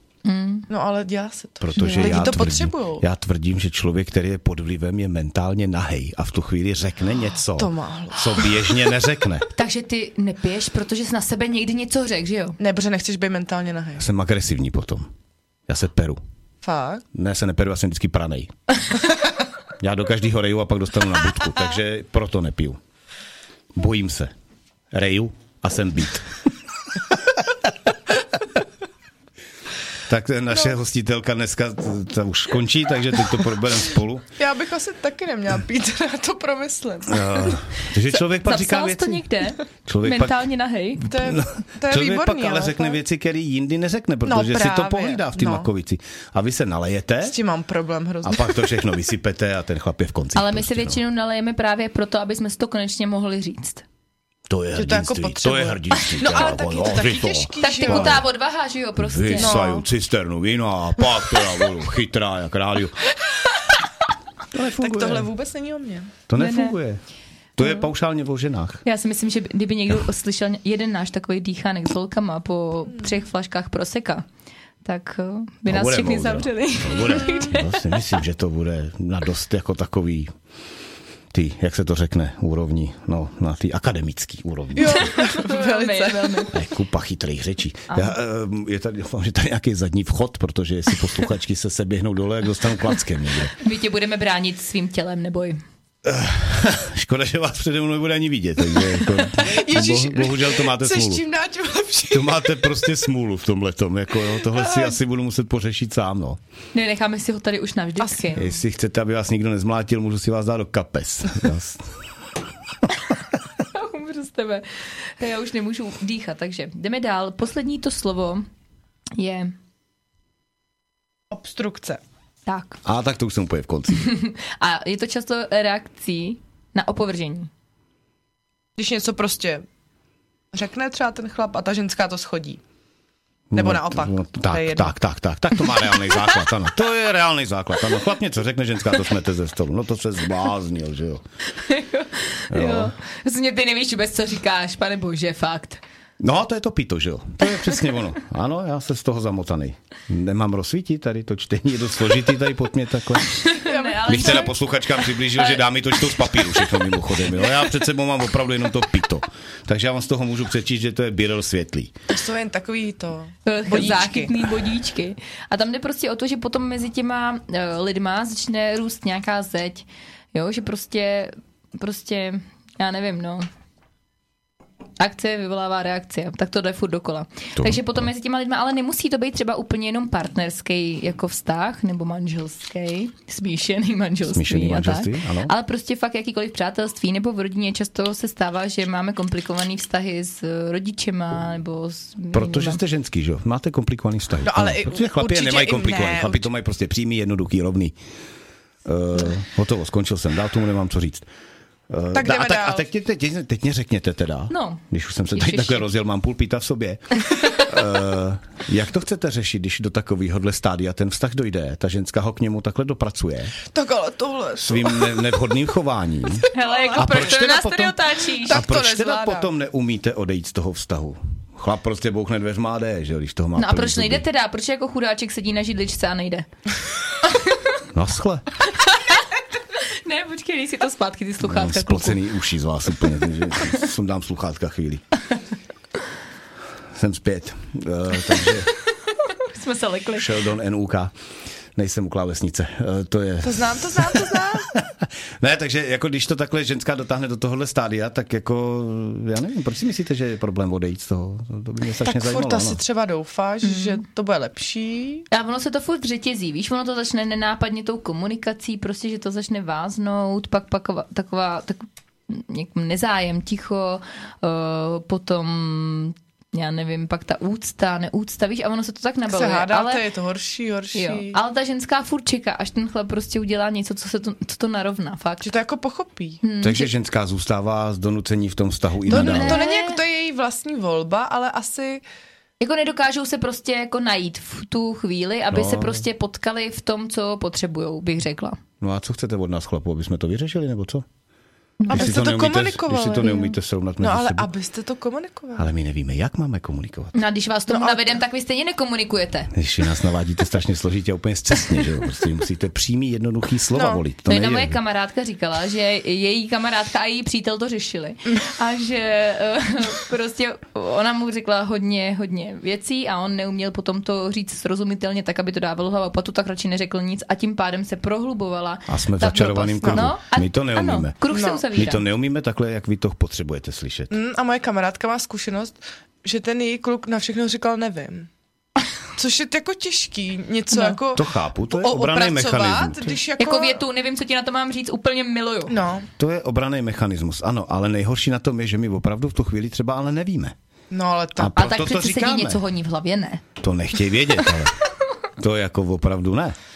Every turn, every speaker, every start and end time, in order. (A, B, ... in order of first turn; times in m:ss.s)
0:00.2-0:00.6 A
0:00.7-0:03.0 B
0:01.6-0:09.5 C
0:01.8-0:02.2 A
0:07.6-0:08.8 B
0:09.5-0:12.6 A
0:12.6-0:14.1 B
0:14.0-0:15.1 C
0:15.7-0:16.2 C
0:16.6-0:17.0 B
0:17.1-0:18.5 C
0:19.8-0:22.8 C
0:23.7-0:24.3 C
0:24.9-0:26.3 C
0:30.1-0:34.3 C
0:34.4-0:37.7 B
0:37.1-0:39.2 C
0:38.4-0:41.1 A
0:39.8-0:47.4 C
0:41.1-0:43.0 B
0:44.2-0:45.7 B
0:47.2-0:48.6 B
0:48.2-0:51.0 C
0:50.4-0:53.8 A
0:54.5-0:58.2 C
0:54.7-0:58.2 B
0:57.6-0:59.6 A
0:59.0-1:03.0 C
0:59.4-0:59.9 B
1:04.5-1:05.3 C
1:04.8-1:06.1 B
1:06.3-1:07.0 C
1:06.4-1:06.8 A
1:07.6-1:08.8 C
1:08.8-1:14.2 A
1:14.8-1:17.8 A
1:15.6-1:20.3 C
1:17.1-1:17.4 B
1:21.3-1:25.1 C
1:24.8-1:26.5 B
1:24.8-1:26.5 A
1:26.5-1:33.6 C
1:33.6-1:35.6 A
1:36.0-1:41.2 C
1:39.3-1:42.7 B
1:42.1-1:46.4 C
1:46.7-1:48.5 A
1:48.0-1:48.5 B
1:48.4-1:51.9 C
1:53.7-1:58.4 A
1:59.2-1:59.5 A
2:01.3-2:02.0 B
2:02.5-2:02.8 A
2:02.8-2:04.1 C
2:03.9-2:07.5 A
2:08.8-2:09.6 B
2:10.5-2:12.6 B
2:13.5-2:21.2 C
2:13.5-2:14.9 B
2:21.6-2:25.8 A
2:22.5-2:22.9 C
2:26.2-2:33.4 C
2:27.5-2:27.8 A
2:33.4-2:34.5 A
2:33.6-2:34.5 B
2:34.1-2:41.9 C
2:35.3-2:36.9 A
2:42.1-2:44.3 B
2:43.4-2:53.5 A
2:55.0-3:12.8 A
2:57.6-2:57.8 C
3:04.3-3:05.5 C
3:12.3-3:17.9 C
3:14.4-3:16.5 B
3:18.8-3:21.3 C
3:21.9-3:33.6 C
3:22.1-3:22.8 B
3:24.5-3:25.9 A
3:33.7-3:35.3 B
3:34.6-3:44.2 C
3:36.4-3:37.4 B
3:36.5-3:38.6 A
3:38.4-3:39.5 B
3:43.6-3:46.5 A
3:47.3-3:47.6 A
3:47.9-3:48.4 C
3:49.7-3:52.2 A
3:51.4-3:55.0 C
3:56.9-3:58.7 C
3:59.3-4:00.3 A
4:00.2-4:01.1 C
4:01.8-4:12.8 C
4:03.4-4:04.7 B
4:12.0-4:15.3 B
4:13.6-4:14.0 A
4:15.3-4:30.0 A
4:29.3-4:31.4 B
4:30.9-4:35.5 A
4:35.4-4:36.4 B
4:36.4-4:36.9 A
4:36.6-4:39.6 C
4:39.1-4:40.0 A
4:39.1-4:42.0 B
4:42.6-4:48.6 A
4:45.5-4:46.0 C
4:48.8-4:51.0 C
4:51.8-4:52.2 A
4:51.9-4:55.7 B
4:51.9-4:54.5 C
4:53.2-4:53.5 A
4:55.6-4:57.1 C
4:57.1-4:59.5 A
4:57.7-4:58.2 B
4:59.5-5:04.8 C
5:03.7-5:04.0 B
5:04.3-5:22.0 A
5:18.9-5:21.2 C
5:19.8-5:20.1 B
5:21.3-5:21.6 B
5:21.7-5:24.1 C
5:24.1-5:28.3 B
5:29.2-5:33.8 B
5:30.7-5:31.0 A
5:31.1-5:33.2 C
5:33.4-5:35.8 A
5:35.7-5:36.1 B
5:36.2-5:40.6 C
5:40.9-5:41.5 B
5:41.4-5:42.6 C
5:41.6-5:43.4 A
5:43.6-5:44.7 C
5:45.4-5:46.6 C